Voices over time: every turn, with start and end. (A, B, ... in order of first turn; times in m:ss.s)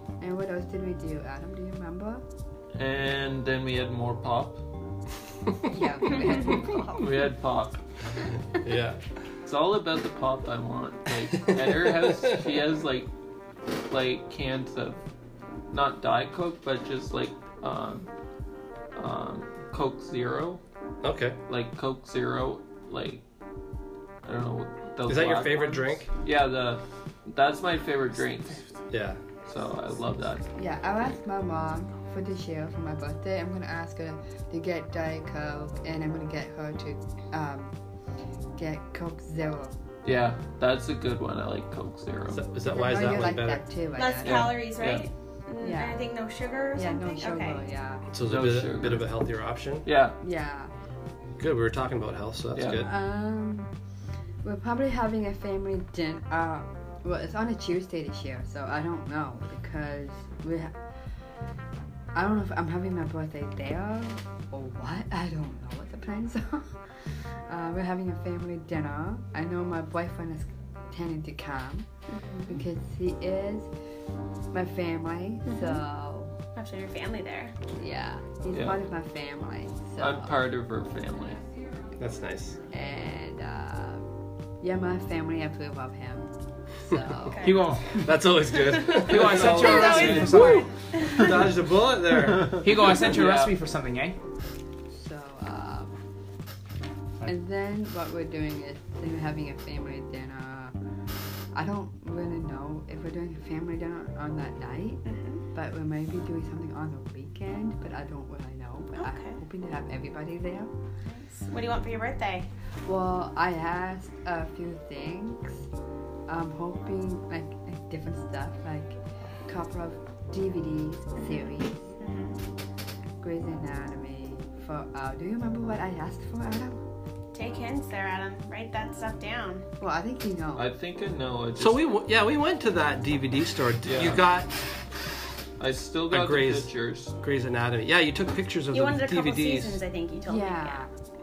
0:00.2-0:02.2 A
0:02.7-0:04.6 B
0:05.6-0:07.3 A
0:06.4-0:07.8 B
0:08.6-0:09.0 C
0:09.4-0:13.1 B
0:11.5-0:12.4 C
0:13.9-0:15.0 B
0:15.7-0:18.1 B
0:18.9-0:20.6 B
0:21.0-0:21.4 C
0:21.5-0:23.2 B
0:24.2-0:28.6 B
0:25.0-0:26.1 C
0:28.9-0:29.2 C
0:29.4-0:30.4 B
0:30.5-0:37.7 A
0:38.6-0:39.8 A
0:40.0-0:42.4 B
0:42.3-0:43.7 C
0:42.6-0:44.6 A
0:43.9-0:47.6 D
0:44.2-0:45.0 B
0:45.6-0:46.0 A
0:46.7-0:48.0 A
0:48.1-0:49.8 C
0:48.2-0:49.2 B
0:49.8-0:50.2 B
0:50.2-0:50.7 A
0:51.4-0:52.9 C
0:52.5-0:52.8 B
0:52.8-0:53.7 A
0:54.4-1:00.7 A
1:02.1-1:06.7 A
1:07.5-1:11.9 A
1:12.1-1:12.6 D
1:12.5-1:13.7 A
1:14.5-1:16.3 A
1:15.4-1:15.8 D
1:16.5-1:17.5 D
1:17.7-1:20.3 A
1:18.5-1:18.8 B
1:20.0-1:21.4 B
1:22.0-1:22.6 C
1:22.7-1:24.0 A
1:24.6-1:26.3 A
1:26.8-1:27.5 A
1:27.3-1:27.6 D
1:27.4-1:28.2 E
1:28.0-1:30.5 C
1:28.8-1:31.4 D
1:28.8-1:31.5 B
1:29.0-1:30.7 E
1:31.1-1:32.7 C
1:32.4-1:33.5 B
1:32.5-1:34.2 E
1:34.9-1:35.9 A
1:37.2-1:40.7 A
1:41.5-1:50.7 A
1:45.0-1:45.4 D
1:48.9-1:49.4 D
1:51.0-1:52.5 D
1:52.8-1:55.6 A
1:56.3-2:01.9 A
2:01.2-2:01.4 D
2:02.0-2:02.4 D
2:03.2-2:06.8 A
2:07.3-2:09.6 D
2:09.8-2:10.7 A
2:10.5-2:11.8 B
2:11.6-2:14.5 C
2:13.8-2:14.3 B
2:15.6-2:17.1 B
2:16.1-2:19.8 C
2:18.7-2:20.8 D
2:20.2-2:20.9 A